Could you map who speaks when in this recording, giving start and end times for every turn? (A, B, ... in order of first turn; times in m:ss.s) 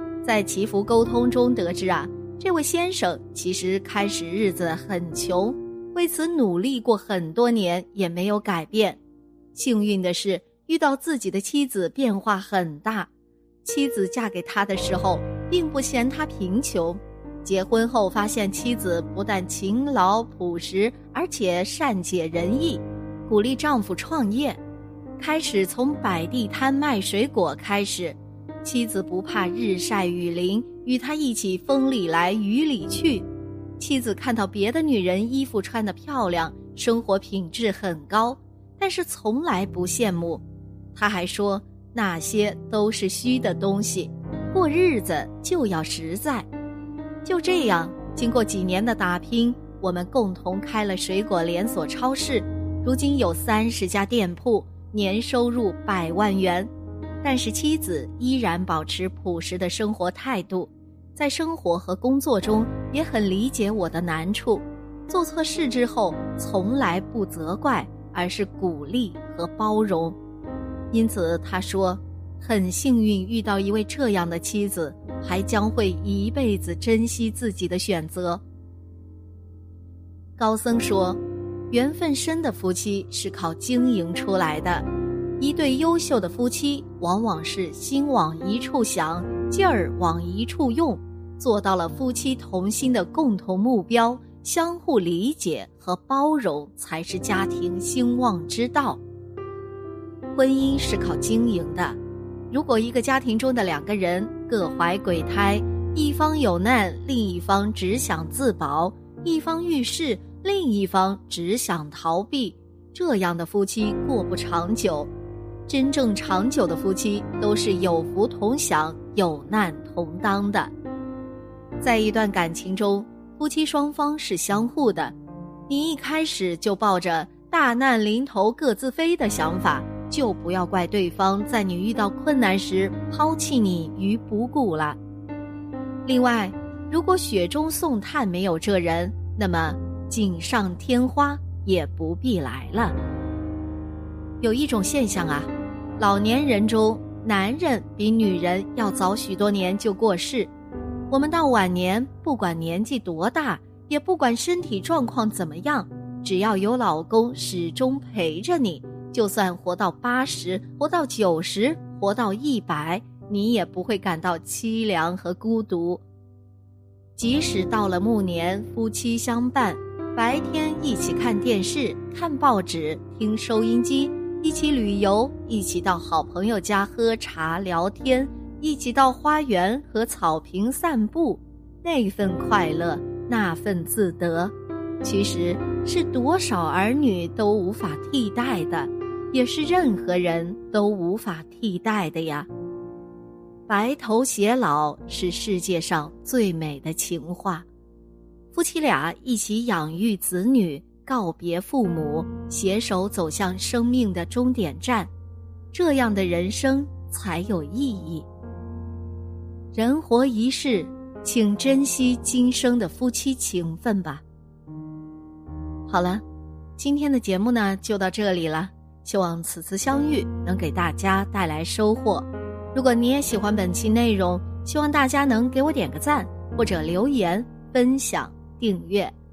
0:00.2-0:09.0 A
0:09.5-0:13.1 A
0:13.6-0:24.6 A
0:25.2-0:33.2 A
0:33.8-0:40.4 A
0:40.9-0:46.5 A
0:47.2-0:56.7 A
0:57.2-1:10.2 A
1:10.9-1:18.4 A
1:20.4-1:24.9 A
1:25.4-1:39.0 A
1:40.3-1:42.0 A
1:42.5-1:55.1 A
1:55.7-2:00.7 A
2:01.8-2:05.1 A
2:05.7-2:15.0 A
2:16.0-2:23.0 A
2:24.4-2:30.5 A
2:31.1-2:46.0 A
2:47.2-3:12.5 A
3:13.7-3:17.6 A
3:18.5-3:25.1 A
3:25.7-3:28.3 A
3:29.7-3:34.2 A
3:35.9-3:36.2 A
3:36.8-3:49.1 A